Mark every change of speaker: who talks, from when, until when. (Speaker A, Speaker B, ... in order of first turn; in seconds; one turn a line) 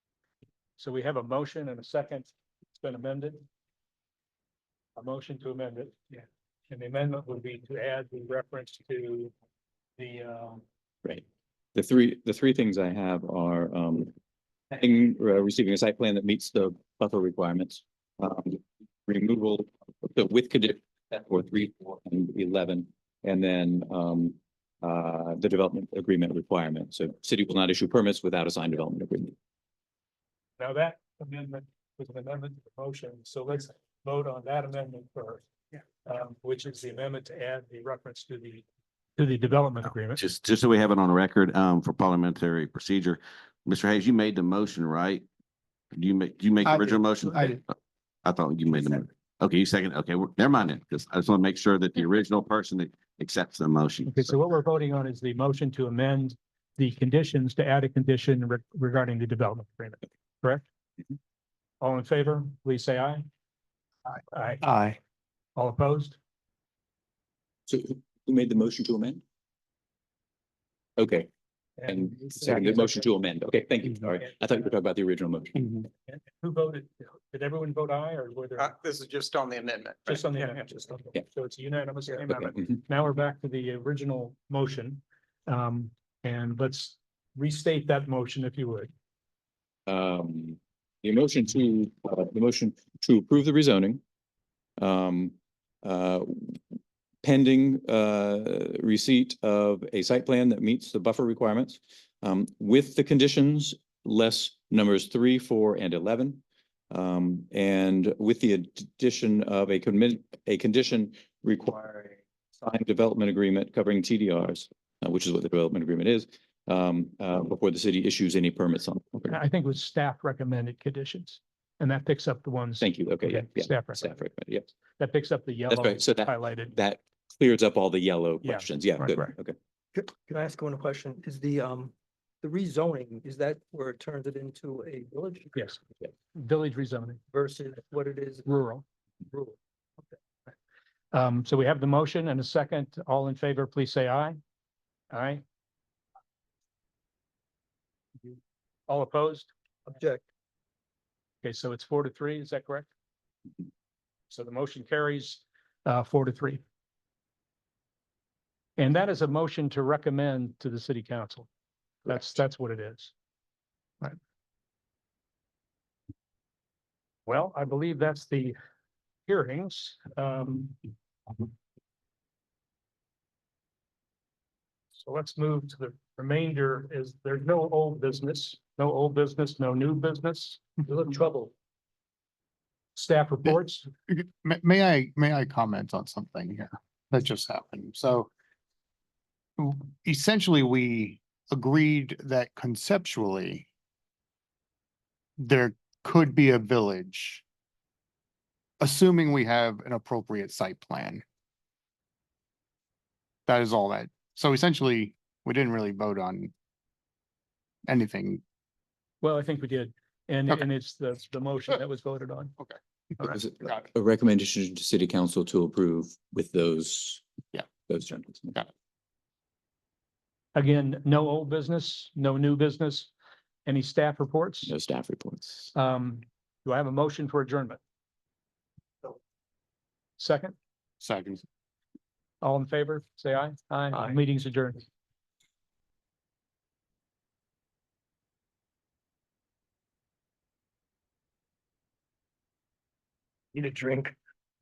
Speaker A: 0.8-3.5
Speaker A: 5.0-9.3
Speaker A: 10.0-10.6
Speaker B: 11.7-14.1
Speaker B: 14.7-29.3
Speaker A: 30.6-35.5
Speaker A: 36.0-38.6
Speaker A: 39.2-40.2
Speaker C: 40.2-45.2
Speaker C: 45.9-47.7
Speaker D: 46.6-47.6
Speaker C: 48.2-54.4
Speaker A: 54.1-60.6
Speaker A: 61.8-63.2
Speaker A: 64.3-64.7
Speaker D: 64.6-65.0
Speaker A: 65.5-66.2
Speaker B: 67.7-69.2
Speaker B: 71.0-71.3
Speaker A: 71.8-73.0
Speaker B: 71.8-75.9
Speaker A: 76.1-78.7
Speaker E: 78.6-80.6
Speaker A: 80.1-88.9
Speaker B: 89.9-94.0
Speaker B: 94.8-96.6
Speaker B: 97.2-119.4
Speaker A: 119.3-124.1
Speaker B: 122.8-124.7
Speaker A: 125.0-126.7
Speaker B: 125.7-129.5
Speaker A: 128.4-129.3
Speaker F: 129.9-135.8
Speaker A: 136.3-137.2
Speaker F: 137.3-138.5
Speaker A: 138.4-138.8
Speaker F: 139.3-139.6
Speaker A: 141.1-144.4
Speaker A: 145.1-145.4
Speaker A: 148.9-149.5
Speaker F: 149.9-150.2
Speaker A: 151.4-152.9
Speaker A: 154.3-156.6
Speaker A: 158.8-161.5
Speaker A: 162.0-163.1
Speaker A: 167.2-168.6
Speaker A: 169.3-170.8
Speaker A: 174.9-181.0
Speaker F: 180.9-181.5
Speaker A: 182.9-183.9
Speaker D: 184.1-188.3
Speaker D: 189.6-193.7
Speaker D: 195.4-197.4
Speaker D: 198.8-201.2
Speaker D: 203.5-206.5
Speaker D: 207.9-208.4
Speaker A: 209.2-212.5
Speaker D: 212.6-213.9
Speaker B: 213.2-218.7
Speaker A: 220.5-223.1
Speaker A: 223.7-224.7
Speaker B: 224.6-225.7
Speaker A: 225.7-227.8
Speaker A: 230.2-230.6
Speaker D: 231.0-231.4
Speaker A: 232.4-234.8
Speaker F: 243.5-244.2